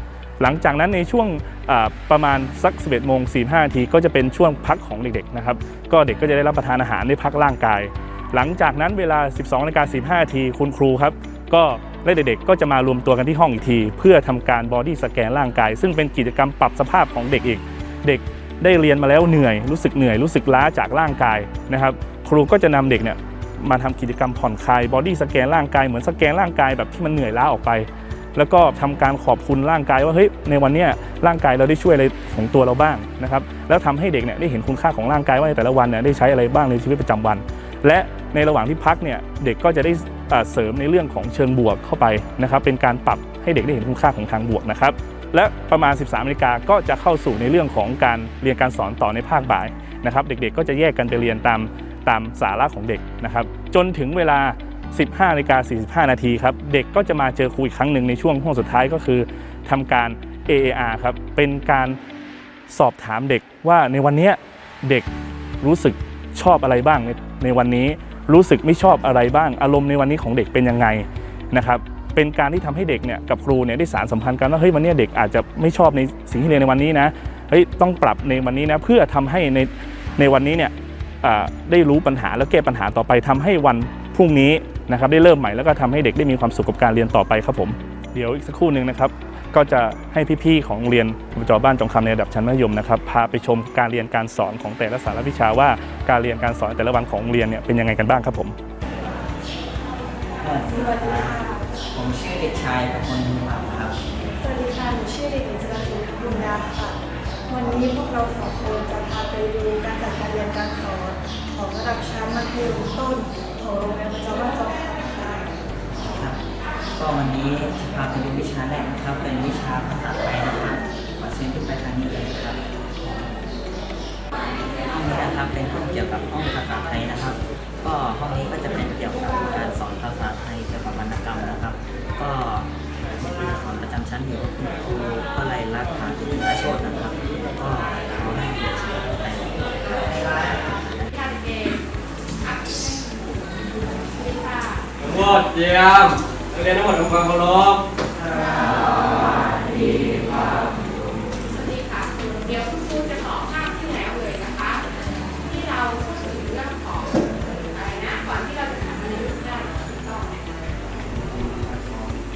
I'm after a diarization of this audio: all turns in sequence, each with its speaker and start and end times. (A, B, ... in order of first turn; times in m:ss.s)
0:00.4-1:02.0 A
1:02.7-1:05.1 A
1:05.6-1:38.6 A
1:40.4-1:44.0 B
1:40.7-1:41.5 C
1:44.4-1:47.0 C
1:47.5-1:55.5 C
1:55.9-1:56.4 B
1:57.0-2:02.6 B
2:04.7-2:20.4 B
2:21.1-2:21.8 D
2:22.4-2:24.8 D
2:25.0-2:27.8 E
2:31.5-2:34.8 D
2:35.4-2:40.4 D
2:41.3-2:42.0 E